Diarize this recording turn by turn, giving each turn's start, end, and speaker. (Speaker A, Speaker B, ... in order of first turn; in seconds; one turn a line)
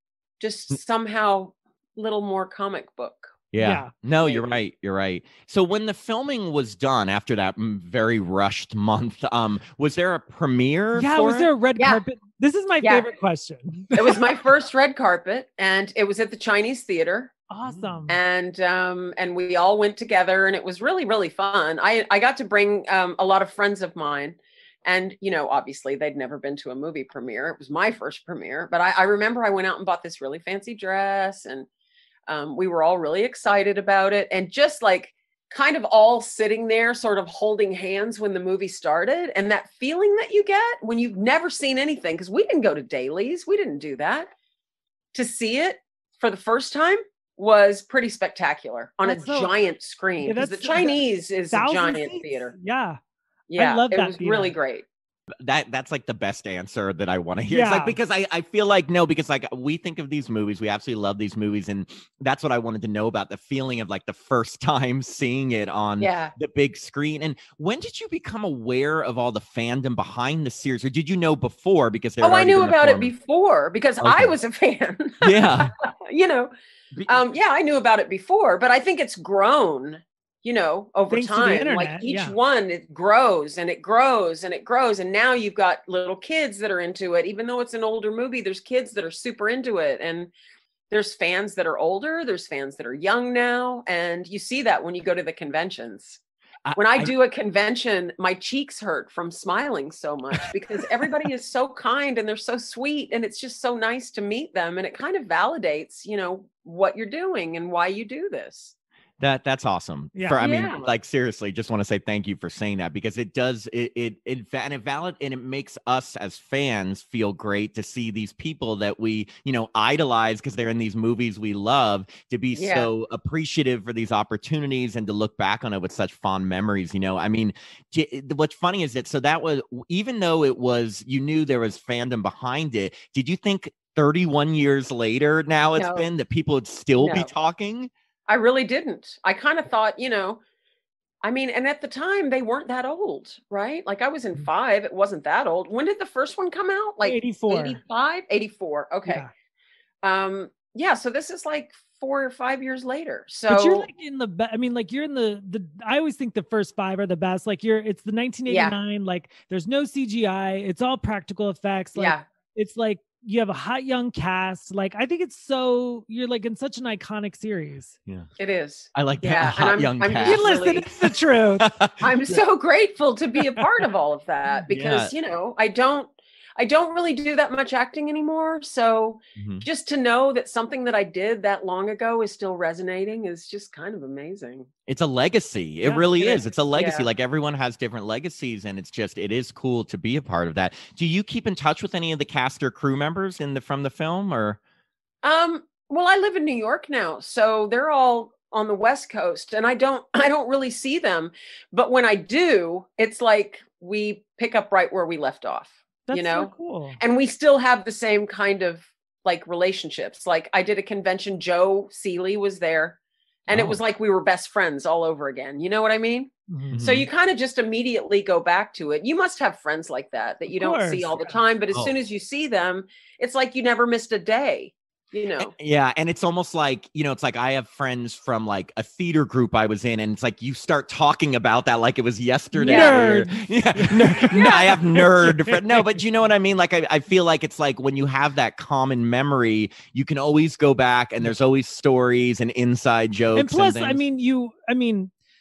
Speaker A: 0.4-3.3
Speaker B: 3.5-11.5
Speaker C: 3.6-3.9
Speaker A: 4.2-4.5
Speaker C: 10.9-14.2
Speaker A: 11.7-12.0
Speaker A: 12.8-13.1
Speaker A: 13.9-17.3
Speaker C: 17.5-18.2
Speaker B: 17.6-18.0
Speaker A: 18.1-31.7
Speaker A: 32.3-44.3
Speaker A: 45.1-52.5
Speaker C: 49.0-49.5
Speaker C: 50.2-53.0
Speaker A: 53.5-54.9
Speaker C: 53.5-54.5
Speaker B: 55.4-73.1
Speaker C: 57.5-58.0
Speaker A: 66.0-66.3
Speaker A: 72.2-76.5
Speaker B: 74.0-74.3
Speaker B: 75.2-75.7
Speaker B: 76.9-77.2
Speaker A: 77.1-90.3
Speaker C: 81.1-82.3
Speaker A: 90.9-96.2
Speaker B: 96.6-97.1
Speaker A: 96.7-108.7
Speaker B: 109.2-137.9
Speaker A: 110.4-110.9
Speaker A: 122.5-122.9
Speaker A: 135.8-136.1
Speaker A: 137.0-137.3
Speaker A: 138.3-140.4
Speaker A: 141.2-149.2
Speaker C: 147.0-147.8
Speaker A: 150.0-153.9
Speaker C: 153.5-167.9
Speaker A: 158.5-158.8
Speaker A: 161.9-162.2
Speaker A: 168.4-170.9
Speaker B: 168.9-170.9
Speaker C: 170.2-171.7
Speaker B: 171.6-172.4
Speaker A: 172.0-184.7
Speaker B: 174.7-175.1
Speaker B: 179.3-179.6
Speaker B: 184.9-194.6
Speaker A: 185.8-187.1
Speaker A: 195.2-225.5
Speaker C: 206.1-207.0
Speaker B: 213.5-213.8
Speaker C: 216.5-216.8
Speaker B: 216.7-217.1
Speaker C: 220.5-221.4
Speaker B: 225.4-244.0
Speaker C: 232.6-235.9
Speaker A: 232.6-233.0
Speaker A: 234.3-234.8
Speaker C: 243.3-245.1